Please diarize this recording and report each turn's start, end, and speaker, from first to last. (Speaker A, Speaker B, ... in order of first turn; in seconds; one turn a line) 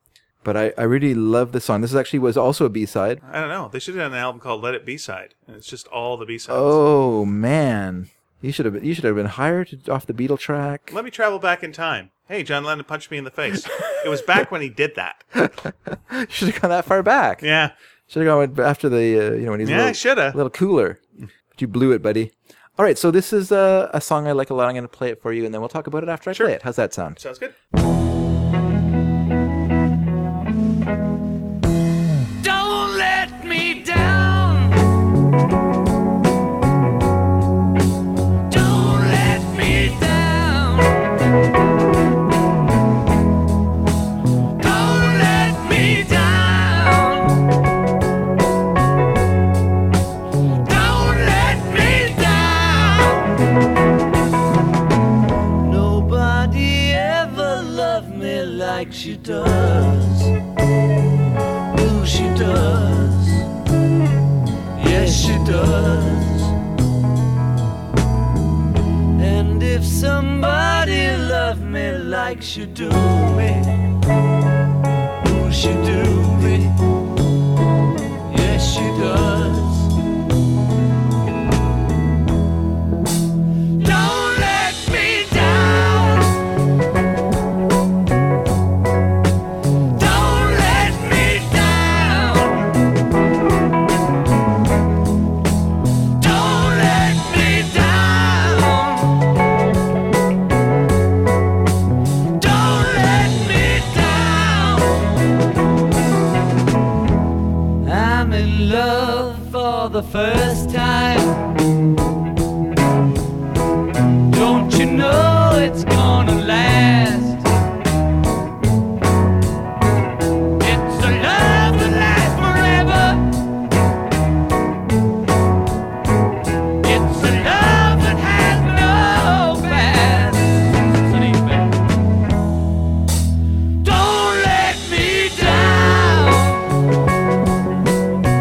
Speaker A: 0.4-3.2
Speaker B: 3.2-6.8
Speaker A: 6.5-10.9
Speaker B: 10.9-15.2
Speaker A: 15.3-17.4
Speaker B: 17.4-17.7
Speaker A: 18.1-21.0
Speaker B: 19.6-20.4
Speaker A: 21.5-27.2
Speaker B: 27.2-27.5
Speaker C: 32.4-34.9
Speaker C: 38.5-41.1
Speaker C: 44.6-47.5
Speaker C: 50.6-53.4
Speaker C: 55.6-60.3
Speaker C: 61.7-63.5
Speaker C: 64.8-66.5
Speaker C: 69.2-73.8
Speaker C: 75.2-76.8
Speaker C: 78.3-79.9
Speaker C: 83.8-86.4
Speaker C: 89.9-92.8
Speaker C: 96.2-99.3
Speaker C: 102.4-105.1
Speaker C: 107.8-111.4
Speaker C: 114.3-117.5
Speaker C: 120.6-123.3
Speaker C: 126.8-131.7
Speaker C: 133.8-136.7